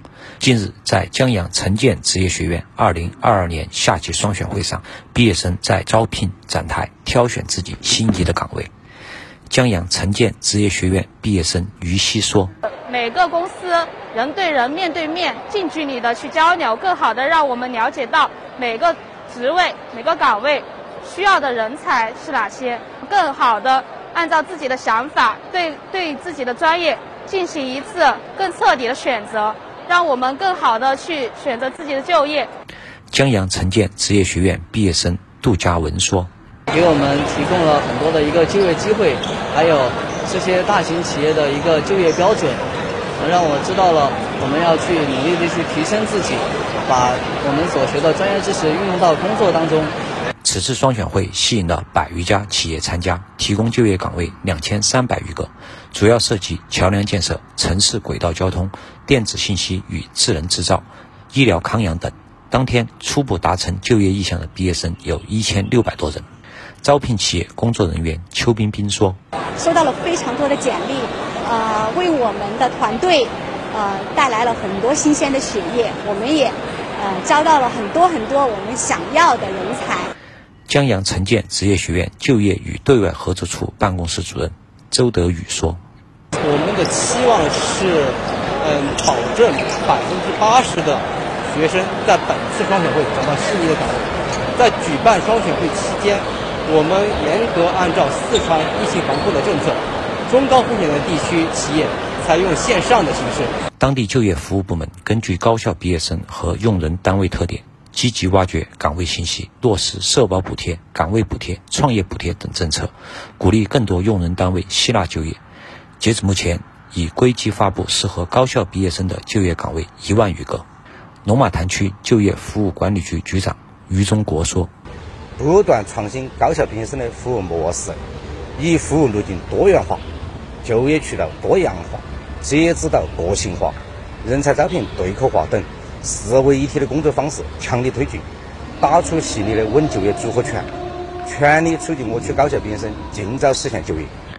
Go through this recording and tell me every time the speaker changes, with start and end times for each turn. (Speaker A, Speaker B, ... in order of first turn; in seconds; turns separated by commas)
Speaker A: 0.4-8.7, Speaker A: 9.5-12.5, Speaker B: 12.7-32.5, Speaker A: 33.1-36.3, Speaker C: 36.7-42.6, Speaker C: 43.2-49.9, Speaker A: 50.4-66.2, Speaker A: 66.8-69.2, Speaker D: 69.6-80.1, Speaker A: 80.7-85.8, Speaker E: 86.4-103.5, Speaker A: 103.8-115.4, Speaker A: 116.0-120.7, Speaker A: 121.2-124.7, Speaker F: 125.4-128.0, Speaker F: 128.6-130.0, Speaker F: 130.6-138.3, Speaker F: 138.8-140.7, Speaker F: 141.2-144.1